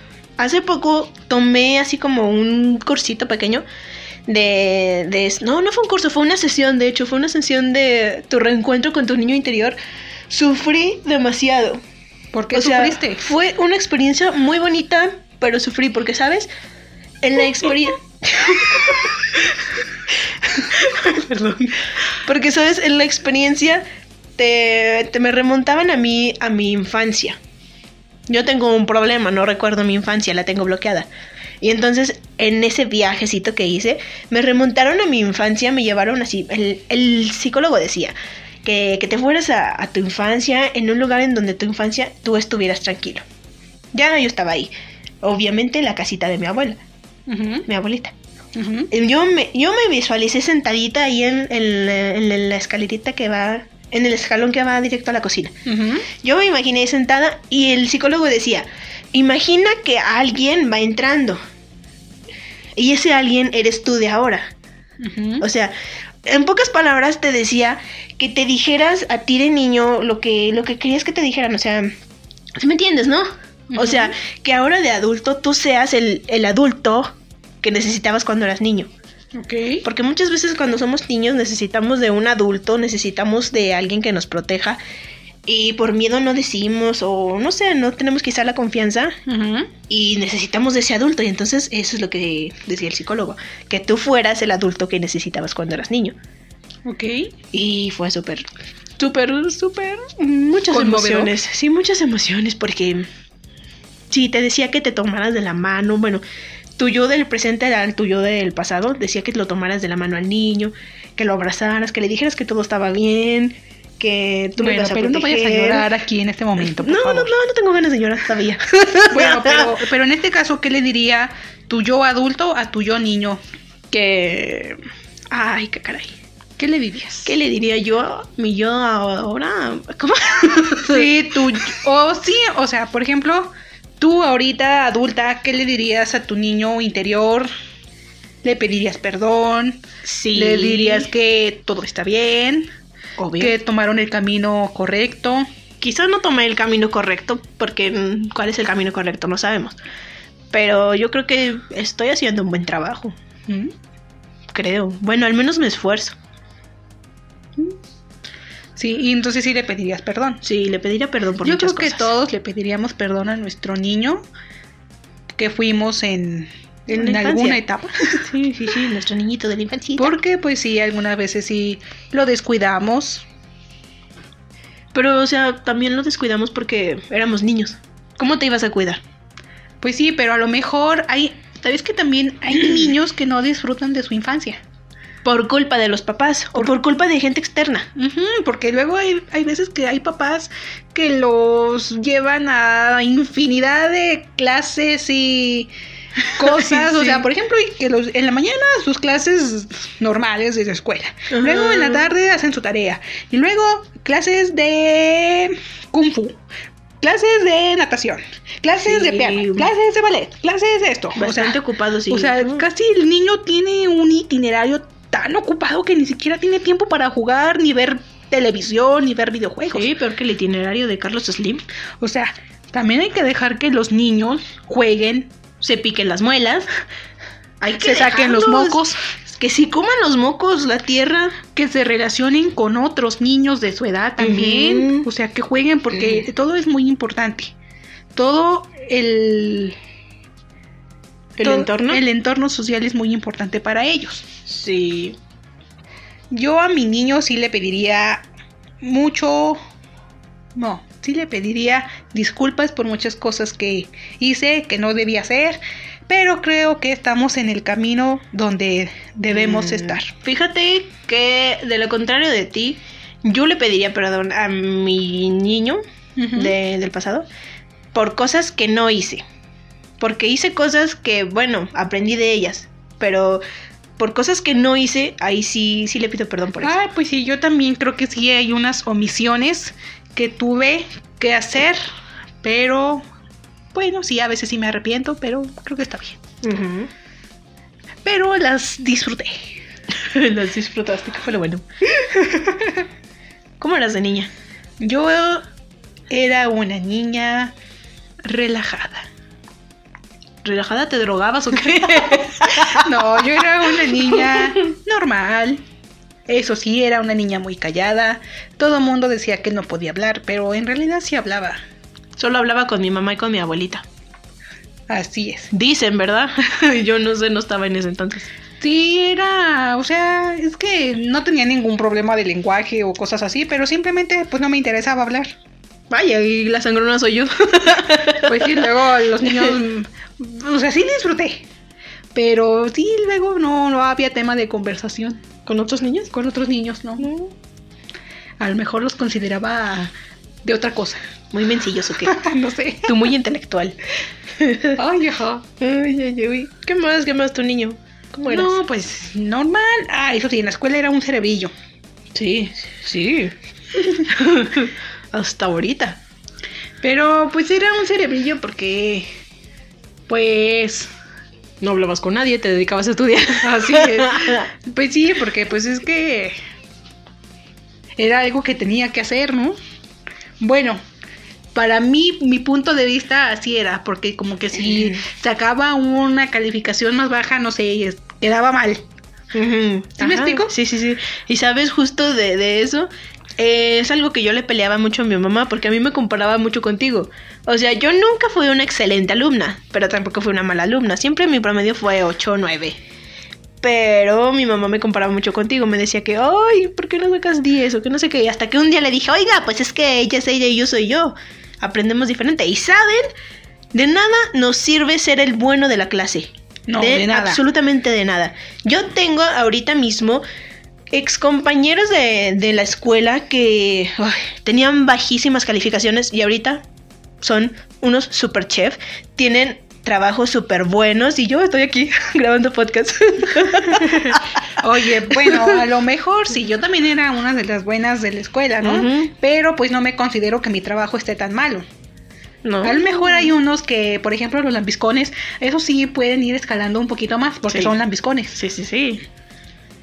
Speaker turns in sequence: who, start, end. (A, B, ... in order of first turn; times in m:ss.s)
0:00.4-0:03.6 A
0:04.3-0:09.8 A
0:10.3-0:11.8 A
0:12.3-0:13.2 B
0:12.5-0:16.5 A
0:17.2-0:19.1 A
0:20.9-0:21.8 B
0:22.2-0:23.8 A
0:24.4-0:27.4 A
0:28.3-0:31.1 A
0:31.6-0:43.2 A
0:43.9-0:44.7 A
0:45.2-0:46.8 A
0:47.3-0:47.6 B
0:47.6-0:48.1 A
0:48.5-0:48.9 B
0:48.9-0:55.5 A
0:55.6-0:56.0 B
0:56.2-1:01.4 A
1:02.8-1:04.5 A
1:05.0-1:05.4 B
1:05.4-1:11.9 A
1:12.5-1:18.9 A
1:13.7-1:14.1 B
1:19.3-1:19.8 B
1:19.8-1:24.8 A
1:25.5-1:29.2 A
1:29.3-1:29.7 B
1:29.9-1:36.2 A
1:36.8-1:37.3 B
1:37.5-1:38.5 A
1:39.0-1:43.1 A
1:40.7-1:41.3 B
1:44.1-1:46.2 A
1:46.8-1:55.9 A
1:54.6-1:57.3 B
1:56.6-1:59.7 A
1:59.1-2:03.4 B
2:03.9-2:04.8 A
2:05.3-2:06.1 A
2:06.6-2:07.3 B
2:07.2-2:11.1 A
2:10.8-2:17.5 B
2:18.4-2:19.8 B
2:20.0-2:21.1 A
2:20.3-2:22.7 B
2:23.2-2:23.5 A
2:23.4-2:25.5 B
2:25.8-2:29.8 A
2:30.5-2:33.1 A
2:33.5-2:33.7 B
2:34.5-2:36.2 A
2:38.8-2:40.4 B
2:40.4-2:42.1 A
2:41.4-2:44.3 B
2:45.3-2:48.2 B
2:46.9-2:47.6 A
2:48.2-2:50.2 A
2:50.0-2:53.2 B
2:54.9-2:59.0 A
2:59.8-3:04.6 B
3:05.2-3:07.9 A
3:07.9-3:15.7 B
3:16.3-3:26.4 B
3:16.4-3:17.2 A
3:21.3-3:22.1 A
3:27.0-3:39.9 B
3:28.8-3:29.7 A
3:31.1-3:32.7 A
3:39.7-3:41.6 A
3:42.0-3:45.3 B
3:45.6-3:46.7 A
3:47.6-3:51.4 A
3:47.8-3:49.0 B
3:51.5-3:57.5 B
3:54.2-3:55.1 A
3:58.1-3:59.8 B
4:01.4-4:02.0 A
4:01.4-4:04.3 B
4:04.5-4:05.2 A
4:06.3-4:08.3 B
4:08.8-4:09.6 B
4:10.5-4:20.1 B
4:19.3-4:25.8 A
4:26.2-4:26.5 B
4:26.3-4:27.3 A
4:27.9-4:29.2 A
4:30.0-4:33.4 A
4:34.0-4:36.7 A
4:36.6-4:41.8 B
4:42.4-4:43.0 B
4:43.7-4:46.2 B
4:46.4-4:46.9 A
4:48.0-4:49.5 B
4:49.9-4:51.6 A
4:52.2-4:52.8 B
4:53.6-4:54.3 A
4:54.8-4:55.4 B
4:56.1-4:57.5 B
4:58.2-4:59.1 B
5:00.4-5:03.1 A
5:01.7-5:05.6 B
5:03.7-5:04.5 A
5:06.3-5:11.6 B
5:12.2-5:13.8 A
5:14.9-5:15.5 B
5:15.5-5:18.3 A
5:18.6-5:25.3 B
5:25.9-5:28.6 A
5:28.2-5:31.4 B
5:32.1-5:35.2 B
5:35.4-5:36.1 A
5:36.1-5:37.1 B
5:37.0-5:37.3 A
5:38.4-5:39.9 B
5:40.4-5:41.0 B
5:41.3-5:42.2 A
5:42.0-5:43.0 B
5:42.8-5:43.8 A
5:44.4-5:44.8 A
5:44.8-5:45.4 B
5:45.6-5:48.5 A
5:48.3-5:51.5 B
5:52.1-5:56.0 A
5:56.8-5:59.1 B
6:00.1-6:00.9 B
6:01.6-6:04.5 A
6:03.4-6:06.4 B
6:08.0-6:09.6 B
6:10.4-6:10.8 B
6:11.5-6:18.8 B
6:19.3-6:32.8 A
6:20.0-6:20.5 B
6:33.6-6:43.1 A
6:43.7-6:50.2 A
6:46.7-6:47.4 B
6:50.9-6:56.6 A
6:57.2-7:04.4 A
7:03.8-7:11.6 B
7:05.1-7:05.6 A
7:08.6-7:09.1 A
7:12.4-7:13.2 A
7:12.6-7:18.4 B
7:17.5-7:17.7 A
7:18.3-7:19.0 A